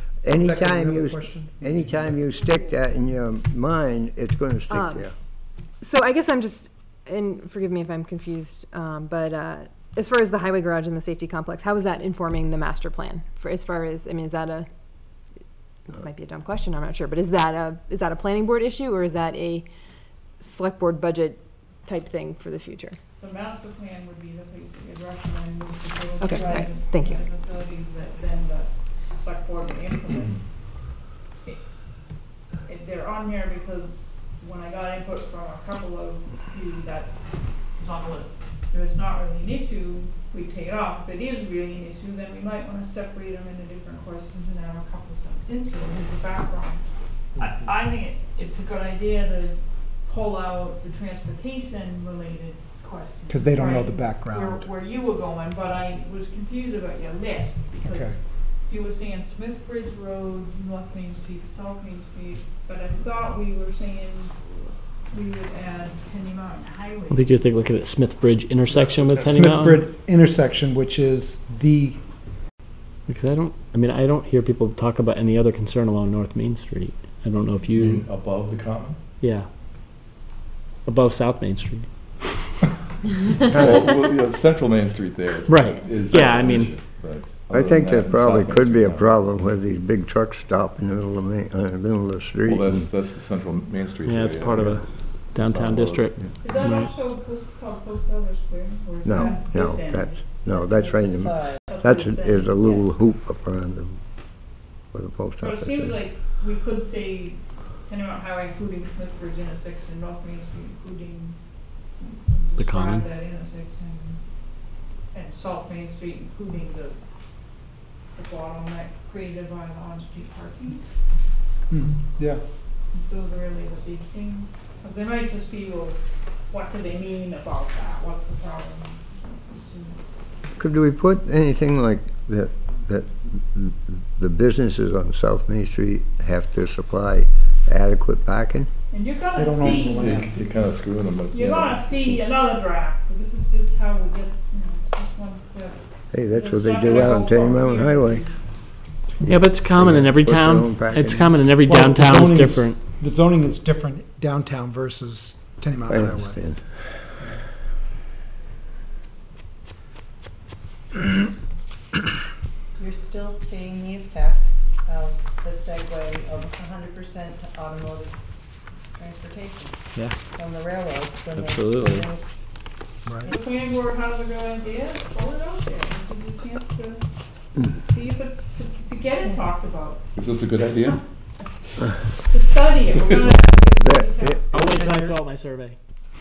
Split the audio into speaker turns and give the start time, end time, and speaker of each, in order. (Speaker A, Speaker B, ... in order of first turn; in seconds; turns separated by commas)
Speaker A: 0.2-5.1, Speaker B: 0.3-2.2, Speaker C: 4.7-5.1, Speaker C: 5.8-14.7, Speaker C: 15.9-19.7, Speaker C: 20.4-23.0, Speaker D: 23.2-30.4, Speaker C: 26.2-27.2, Speaker D: 32.6-37.1, Speaker D: 37.8-64.3, Speaker B: 53.3-54.7, Speaker B: 57.8-58.2, Speaker D: 65.1-67.3, Speaker E: 67.1-69.9, Speaker B: 68.6-72.0, Speaker F: 68.8-69.5, Speaker E: 73.1-78.0, Speaker F: 77.7-79.0, Speaker E: 79.2-79.5, Speaker E: 80.8-82.3, Speaker F: 83.5-89.6, Speaker E: 85.5-86.7, Speaker A: 87.5-92.9, Speaker F: 92.4-96.3, Speaker E: 94.0-96.9, Speaker D: 96.4-100.2, Speaker A: 99.0-104.0, Speaker G: 100.5-101.6, Speaker D: 101.7-102.9, Speaker A: 104.9-106.0, Speaker D: 105.4-111.4, Speaker D: 112.0-114.2, Speaker E: 112.6-113.0, Speaker D: 115.1-117.0, Speaker D: 118.1-120.8, Speaker B: 121.7-122.4, Speaker D: 122.9-130.0, Speaker A: 130.6-138.7, Speaker D: 138.9-140.1, Speaker B: 139.3-140.4, Speaker F: 139.9-142.1, Speaker D: 141.3-145.8, Speaker A: 146.1-148.2, Speaker D: 146.3-148.3, Speaker E: 149.2-152.8, Speaker A: 149.2-151.4, Speaker B: 151.6-156.4, Speaker A: 155.9-156.7, Speaker G: 162.8-168.2, Speaker G: 168.9-169.8, Speaker G: 170.3-172.6, Speaker E: 171.3-172.1, Speaker B: 173.1-173.3, Speaker D: 173.2-177.0, Speaker D: 177.6-180.0, Speaker F: 180.1-181.0, Speaker D: 182.3-184.9, Speaker A: 183.8-184.4, Speaker E: 184.5-185.8, Speaker B: 184.7-185.1